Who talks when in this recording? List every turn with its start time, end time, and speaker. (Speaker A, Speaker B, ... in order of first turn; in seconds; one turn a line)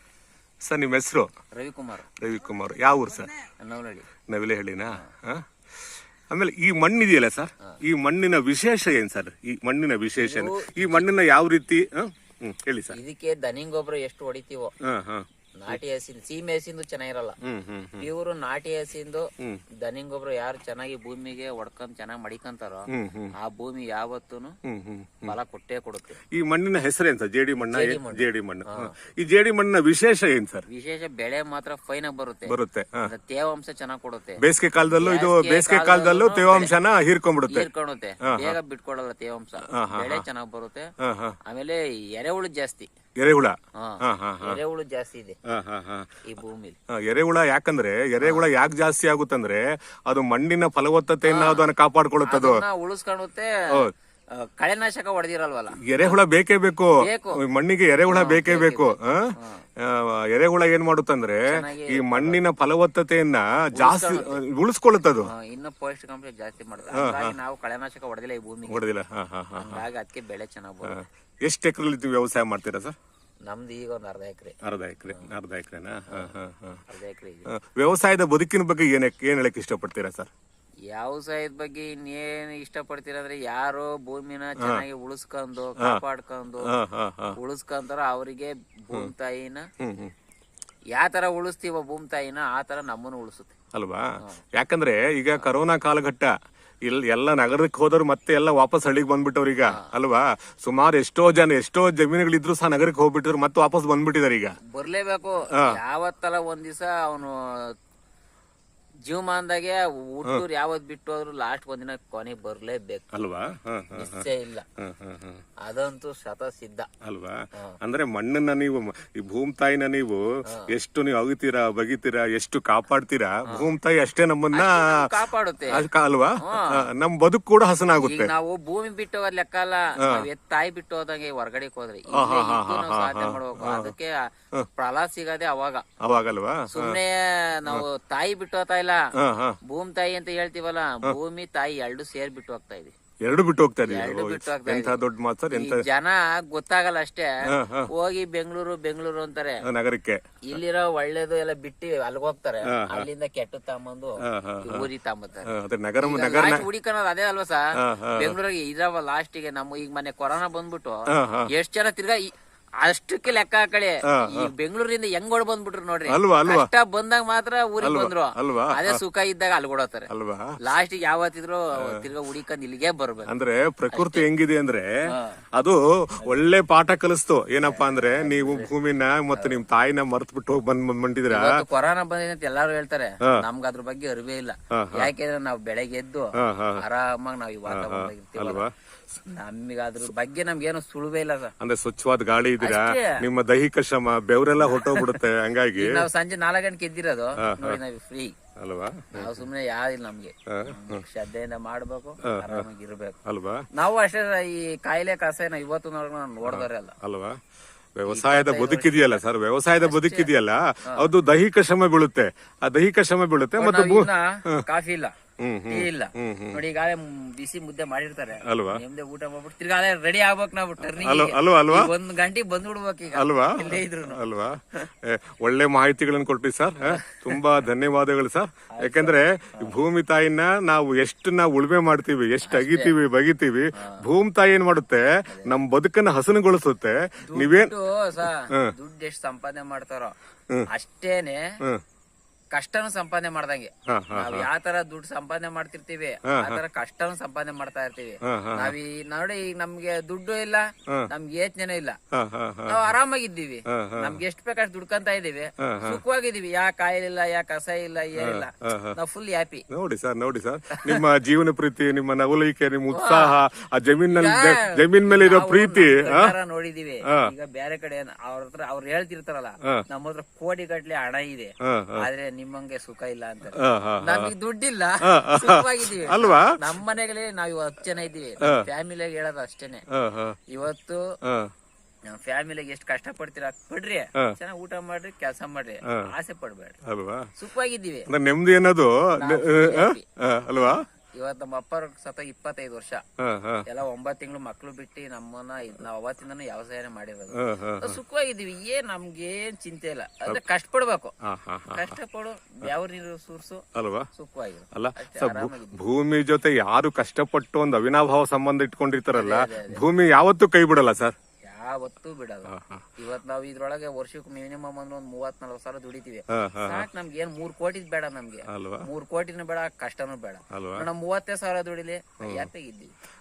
Speaker A: 0.7-1.3
Speaker B: 1.6-2.1
Speaker A: 2.2-3.3
Speaker B: 3.6-4.1
Speaker A: 4.3-13.0
Speaker B: 10.2-11.1
Speaker B: 12.9-14.7
Speaker A: 14.9-15.7
Speaker B: 15.6-17.4
Speaker A: 17.4-18.1
Speaker B: 18.0-19.3
Speaker B: 19.8-24.6
Speaker A: 22.9-23.3
Speaker A: 24.6-25.3
Speaker B: 25.2-26.2
Speaker A: 26.4-30.6
Speaker B: 27.6-28.9
Speaker B: 30.7-34.4
Speaker A: 32.5-33.1
Speaker A: 34.4-37.7
Speaker B: 34.9-36.7
Speaker B: 37.5-40.9
Speaker A: 38.3-38.6
Speaker A: 39.7-40.2
Speaker A: 41.0-41.4
Speaker B: 41.5-42.9
Speaker A: 43.2-44.6
Speaker B: 43.8-45.4
Speaker A: 45.5-46.2
Speaker B: 46.2-46.8
Speaker A: 46.9-52.6
Speaker B: 48.2-48.5
Speaker B: 51.2-51.7
Speaker B: 52.3-53.5
Speaker B: 54.4-56.2
Speaker A: 55.8-59.3
Speaker B: 57.0-57.4
Speaker B: 58.1-59.6
Speaker A: 59.8-65.3
Speaker B: 61.5-62.4
Speaker B: 63.7-64.4
Speaker B: 65.2-68.8
Speaker A: 66.9-67.3
Speaker A: 68.7-69.8
Speaker B: 69.6-71.0
Speaker A: 70.9-73.0
Speaker B: 73.5-74.6
Speaker A: 74.6-76.8
Speaker B: 76.1-76.3
Speaker B: 76.9-77.5
Speaker A: 77.5-80.3
Speaker B: 80.9-86.7
Speaker A: 86.7-87.4
Speaker B: 87.3-89.6
Speaker A: 89.8-90.1
Speaker B: 91.0-93.5
Speaker A: 93.7-96.3
Speaker A: 96.8-104.6
Speaker B: 104.7-107.7
Speaker B: 109.0-113.1
Speaker A: 113.2-114.2
Speaker B: 113.9-114.7
Speaker A: 114.8-115.4
Speaker B: 115.6-116.9
Speaker A: 117.0-125.1
Speaker B: 124.5-125.8
Speaker A: 125.7-128.3
Speaker B: 126.4-126.8
Speaker B: 128.0-134.2
Speaker A: 132.1-133.9
Speaker B: 134.8-135.8
Speaker A: 136.0-137.0
Speaker B: 136.7-139.0
Speaker A: 139.2-139.6
Speaker B: 139.7-142.9
Speaker A: 143.2-145.8
Speaker B: 143.8-145.0
Speaker B: 145.5-147.3
Speaker A: 147.5-147.9
Speaker B: 147.9-149.6
Speaker A: 149.7-150.2
Speaker B: 150.5-170.1
Speaker A: 152.7-153.1
Speaker A: 154.2-154.9
Speaker A: 155.5-156.7
Speaker A: 157.8-158.3
Speaker A: 161.2-161.5
Speaker A: 164.1-164.5
Speaker A: 166.1-166.7
Speaker A: 167.8-169.0
Speaker A: 170.1-170.5
Speaker B: 170.6-173.3
Speaker A: 173.3-174.9
Speaker B: 173.9-174.2
Speaker B: 175.1-175.4
Speaker A: 175.6-181.5
Speaker B: 177.6-178.7
Speaker B: 179.3-179.6
Speaker B: 181.3-188.7
Speaker A: 184.7-185.1
Speaker A: 186.4-186.8
Speaker A: 187.7-188.7
Speaker B: 189.3-191.5
Speaker A: 191.6-196.0
Speaker B: 192.6-193.2
Speaker B: 194.6-195.2
Speaker B: 195.8-198.3
Speaker A: 197.4-197.8
Speaker A: 198.6-199.4
Speaker B: 199.2-203.2
Speaker A: 200.5-201.0
Speaker A: 202.3-202.7
Speaker A: 203.3-203.6
Speaker B: 203.7-207.0
Speaker A: 206.4-207.4
Speaker A: 208.0-214.6
Speaker B: 208.1-209.2
Speaker B: 209.8-210.3
Speaker B: 213.6-215.1
Speaker A: 215.4-216.6
Speaker B: 215.7-224.2
Speaker A: 218.4-218.8
Speaker A: 220.9-221.9
Speaker A: 223.1-237.7
Speaker B: 226.9-227.4
Speaker B: 228.7-229.8
Speaker B: 232.4-232.9
Speaker B: 235.3-235.6
Speaker B: 237.3-240.1
Speaker B: 240.7-241.5
Speaker B: 242.5-252.0
Speaker A: 243.9-244.5
Speaker A: 246.3-246.6
Speaker A: 248.3-248.7
Speaker A: 252.1-252.9
Speaker B: 252.7-259.6
Speaker A: 253.7-254.2
Speaker A: 255.6-256.0
Speaker A: 258.2-259.0
Speaker A: 259.7-266.3
Speaker B: 260.8-261.0
Speaker B: 262.9-263.4
Speaker B: 264.1-279.8
Speaker A: 271.7-272.1
Speaker A: 273.6-274.3
Speaker A: 275.1-276.7
Speaker A: 279.9-280.4
Speaker B: 280.5-281.1
Speaker A: 281.2-281.5
Speaker B: 282.1-286.8
Speaker A: 286.9-287.3
Speaker B: 287.4-288.1
Speaker A: 288.1-290.8
Speaker B: 289.2-290.1
Speaker B: 291.2-293.0
Speaker A: 293.2-293.6
Speaker B: 293.7-301.1
Speaker A: 297.4-298.0
Speaker A: 301.2-302.0
Speaker B: 301.7-305.8
Speaker A: 303.8-304.1
Speaker A: 304.7-311.1
Speaker B: 309.1-309.8
Speaker B: 311.4-322.9
Speaker A: 312.5-312.9
Speaker A: 316.3-316.9
Speaker A: 318.5-318.8
Speaker A: 320.5-320.9